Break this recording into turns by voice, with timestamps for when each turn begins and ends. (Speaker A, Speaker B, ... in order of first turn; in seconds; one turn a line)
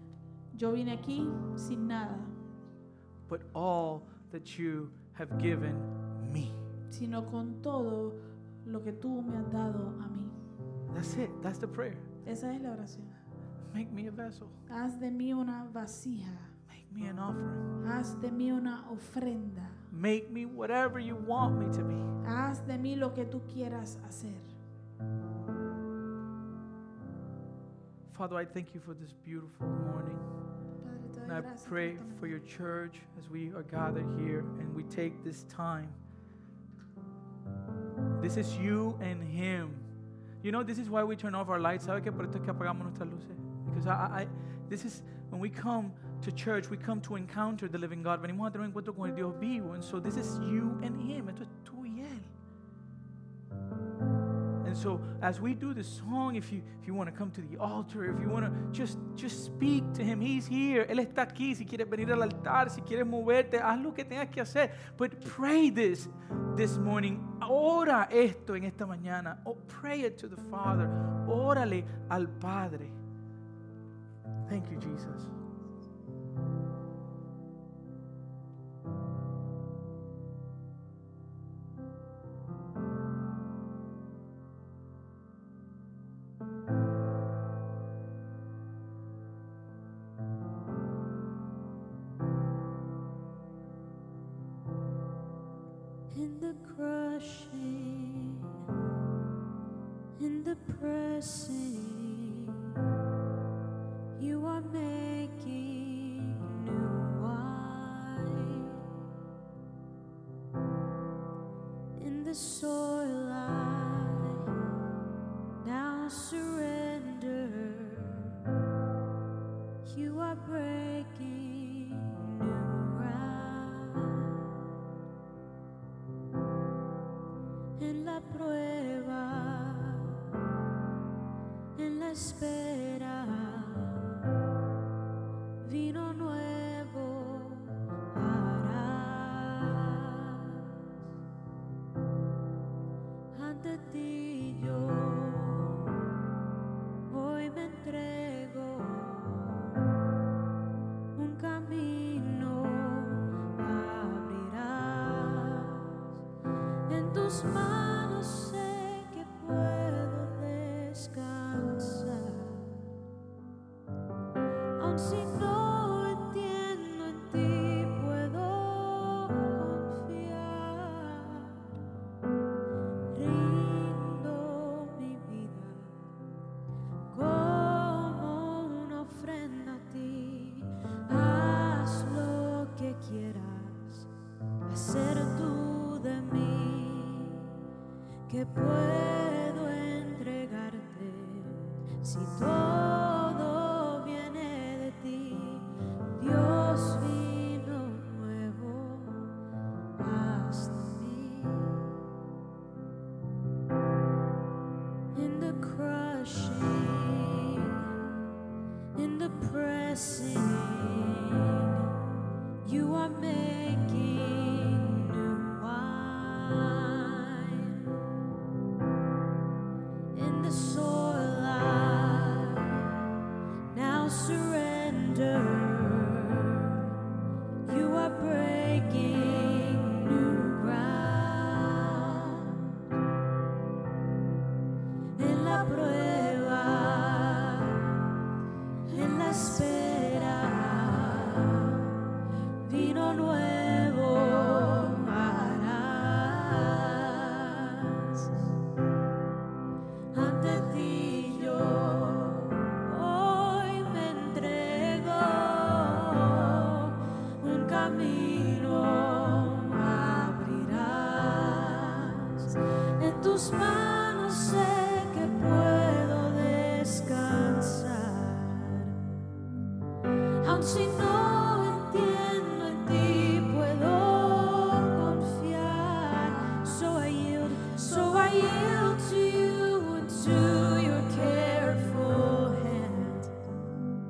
Speaker A: 0.5-2.4
Speaker B: 3.3-6.6
Speaker A: 6.9-10.4
Speaker B: 10.9-12.1
Speaker A: 12.2-13.2
Speaker B: 13.7-14.6
Speaker A: 14.7-16.5
Speaker B: 16.7-17.7
Speaker A: 17.8-19.8
Speaker B: 19.9-22.1
Speaker A: 22.2-24.5
Speaker B: 28.1-30.3
Speaker A: 30.8-32.4
Speaker B: 31.2-36.0
Speaker B: 38.2-39.9
Speaker B: 40.4-52.3
Speaker B: 54.6-73.0
Speaker B: 74.5-75.3
Speaker C: 96.1-98.6
Speaker C: 100.2-102.7
Speaker C: 104.2-108.9
Speaker C: 112.0-114.5
Speaker C: 115.6-118.4
Speaker C: 119.8-124.5
Speaker C: 127.8-130.3
Speaker C: 131.8-134.2
Speaker C: 135.6-140.8
Speaker C: 143.3-146.1
Speaker C: 147.1-149.8
Speaker C: 151.1-156.1
Speaker C: 156.9-162.7
Speaker C: 164.8-171.7
Speaker C: 173.1-176.0
Speaker C: 177.1-184.1
Speaker C: 184.7-187.6
Speaker C: 188.3-199.3
Speaker C: 200.0-201.9
Speaker C: 205.1-207.9
Speaker C: 208.9-211.9
Speaker C: 212.6-217.9
Speaker C: 220.1-223.1
Speaker C: 223.7-226.9
Speaker C: 227.6-232.8
Speaker C: 235.2-238.1
Speaker C: 238.9-242.1
Speaker C: 242.6-248.3
Speaker C: 250.1-269.0
Speaker C: 270.4-283.4